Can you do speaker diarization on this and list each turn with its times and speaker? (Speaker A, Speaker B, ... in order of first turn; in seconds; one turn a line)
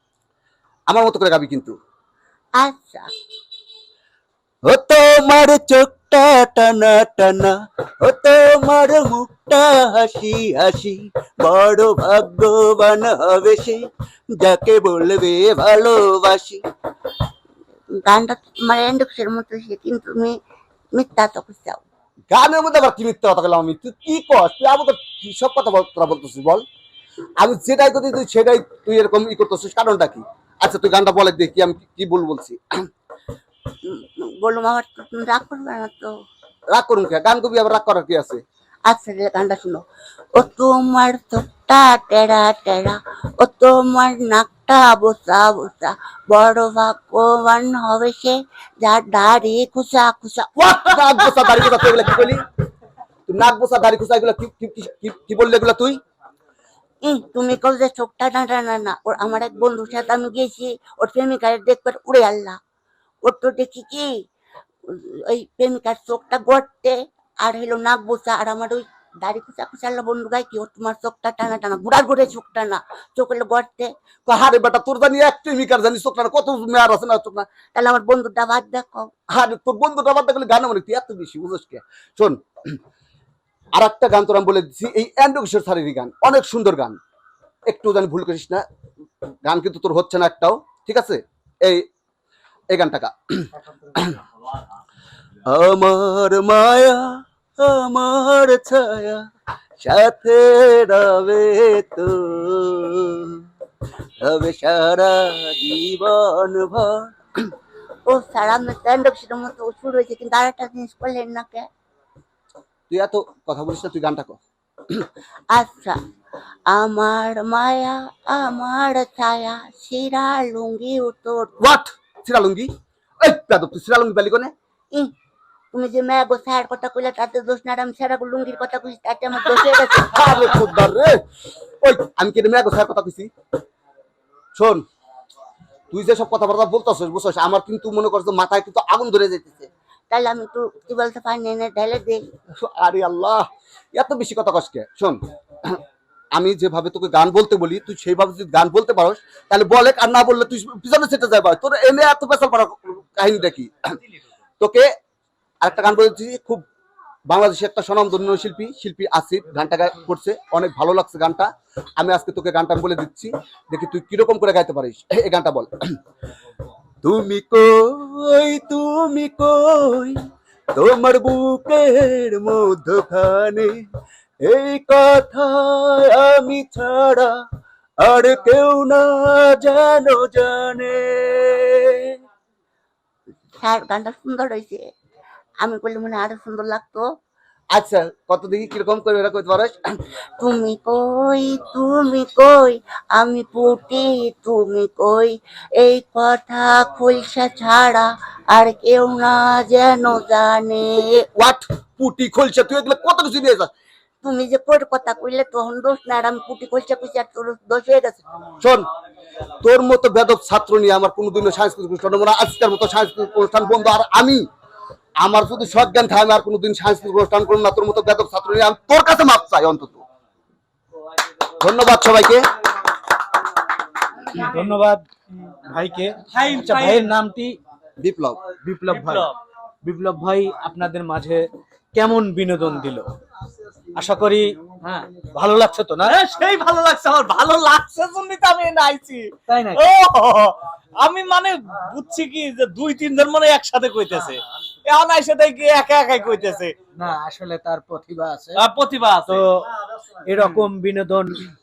Speaker A: 0.9-1.7
Speaker B: 2.6-3.1
Speaker A: 4.7-13.8
Speaker A: 14.3-16.6
Speaker B: 18.0-20.4
Speaker B: 20.9-21.8
Speaker A: 22.3-26.6
Speaker A: 27.4-32.6
Speaker B: 33.8-36.1
Speaker A: 36.7-38.4
Speaker B: 38.9-39.8
Speaker B: 40.4-51.7
Speaker A: 50.6-52.4
Speaker A: 53.3-56.0
Speaker B: 57.0-62.6
Speaker B: 63.2-64.2
Speaker B: 64.9-73.9
Speaker A: 74.3-77.5
Speaker B: 77.8-79.1
Speaker A: 79.3-82.8
Speaker A: 83.7-87.0
Speaker A: 87.7-88.6
Speaker A: 89.4-91.8
Speaker A: 92.7-94.2
Speaker A: 95.5-99.2
Speaker A: 99.8-103.4
Speaker A: 104.2-107.2
Speaker B: 108.1-111.7
Speaker A: 112.9-114.4
Speaker B: 115.5-116.0
Speaker B: 116.7-121.5
Speaker A: 121.6-122.7
Speaker A: 123.2-124.5
Speaker B: 125.7-130.3
Speaker A: 129.8-131.2
Speaker A: 131.8-133.3
Speaker A: 134.6-134.8
Speaker A: 135.9-139.7
Speaker B: 140.1-142.2
Speaker A: 142.7-145.8
Speaker A: 146.3-153.9
Speaker A: 154.6-154.9
Speaker A: 155.6-156.6
Speaker A: 157.3-161.5
Speaker A: 162.0-165.7
Speaker A: 167.0-170.2
Speaker A: 170.8-173.8
Speaker A: 174.4-177.3
Speaker A: 178.0-182.2
Speaker B: 183.6-184.8
Speaker B: 185.6-187.1
Speaker A: 187.7-190.0
Speaker B: 190.4-201.3
Speaker A: 201.3-203.7
Speaker B: 204.2-208.2
Speaker A: 208.6-208.9
Speaker A: 209.6-214.4
Speaker A: 215.2-220.0
Speaker A: 221.6-222.5
Speaker C: 224.3-225.0
Speaker C: 225.7-227.6
Speaker D: 226.3-227.1
Speaker A: 228.0-228.4
Speaker C: 228.6-229.3
Speaker D: 228.9-229.3
Speaker C: 229.8-231.4
Speaker C: 231.9-233.1
Speaker C: 233.9-236.2
Speaker D: 236.0-246.8
Speaker C: 239.5-239.8
Speaker C: 247.0-248.6
Speaker D: 248.6-249.4
Speaker C: 249.2-249.7
Speaker C: 250.2-251.5